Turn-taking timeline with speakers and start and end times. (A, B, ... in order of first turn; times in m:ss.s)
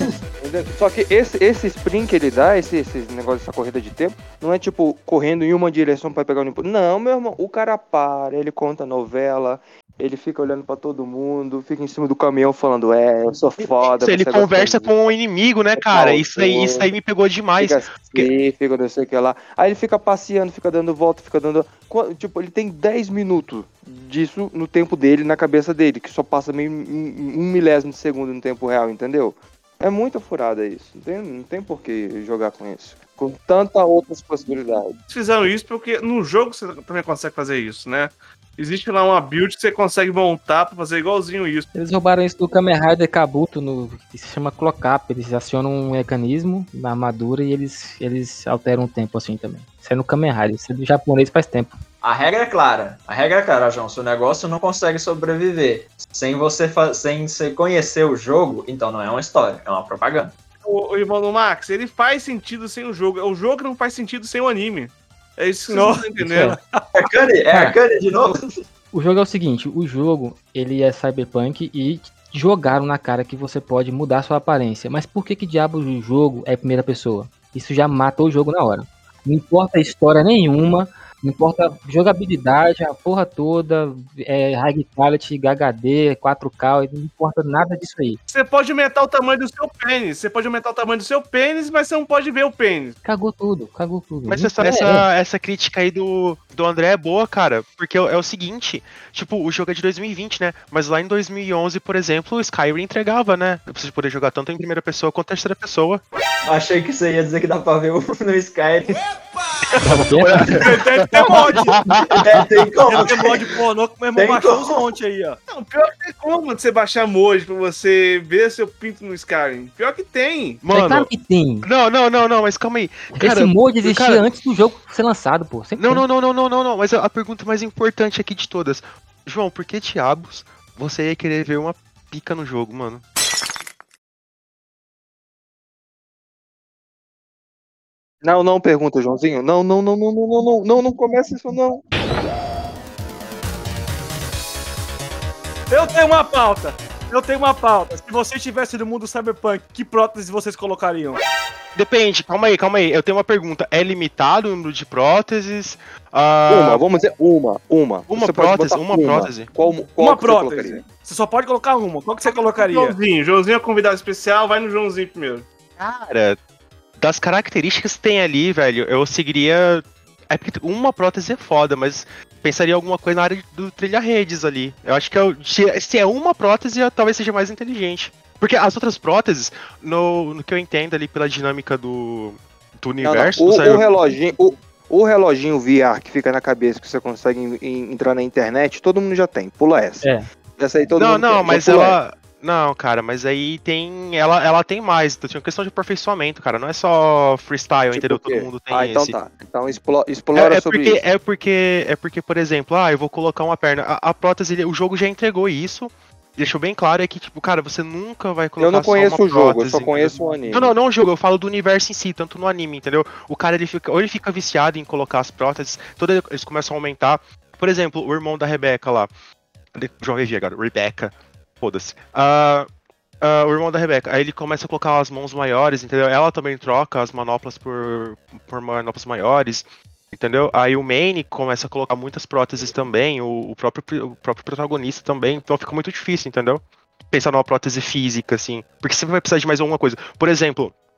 0:00.4-0:15.2 A
0:13.6-0:18.3 B
0:15.8-0:16.9 A
0:17.6-0:35.0 A
0:35.1-0:41.7 C
0:41.7-0:51.8 D
0:52.0-1:00.3 E
1:00.6-1:06.6 C
1:05.7-1:06.1 F
1:06.2-1:06.6 D
1:07.0-1:08.5 E
1:08.9-1:28.2 D
1:28.3-1:33.0 C
1:33.0-1:35.1 D
1:34.3-1:46.0 B
1:46.4-1:49.0 E
1:49.8-1:50.1 F
1:49.8-1:50.6 D
1:50.1-1:53.1 B
1:50.6-1:51.8 F
1:51.5-1:53.3 E
1:52.9-1:55.4 F
1:54.1-1:54.8 E
1:55.5-2:00.6 C
2:00.6-2:01.1 B
2:00.7-2:01.7 D
2:01.6-2:04.2 B
2:03.1-2:06.0 D
2:05.8-2:13.0 B
2:18.2-2:21.8 A
2:25.7-2:31.2 F
2:31.7-2:36.8 B
2:36.5-2:40.9 A
2:38.1-2:39.5 B
2:40.0-2:43.0 F
2:42.2-2:45.4 C
2:45.8-2:46.4 B
2:47.0-3:03.8 B
3:03.0-3:12.0 A
3:11.0-3:19.2 B
3:17.9-3:21.0 A
3:20.3-3:39.1 B
3:28.6-3:30.7 A
3:39.7-3:42.7 B
3:43.2-4:00.7 B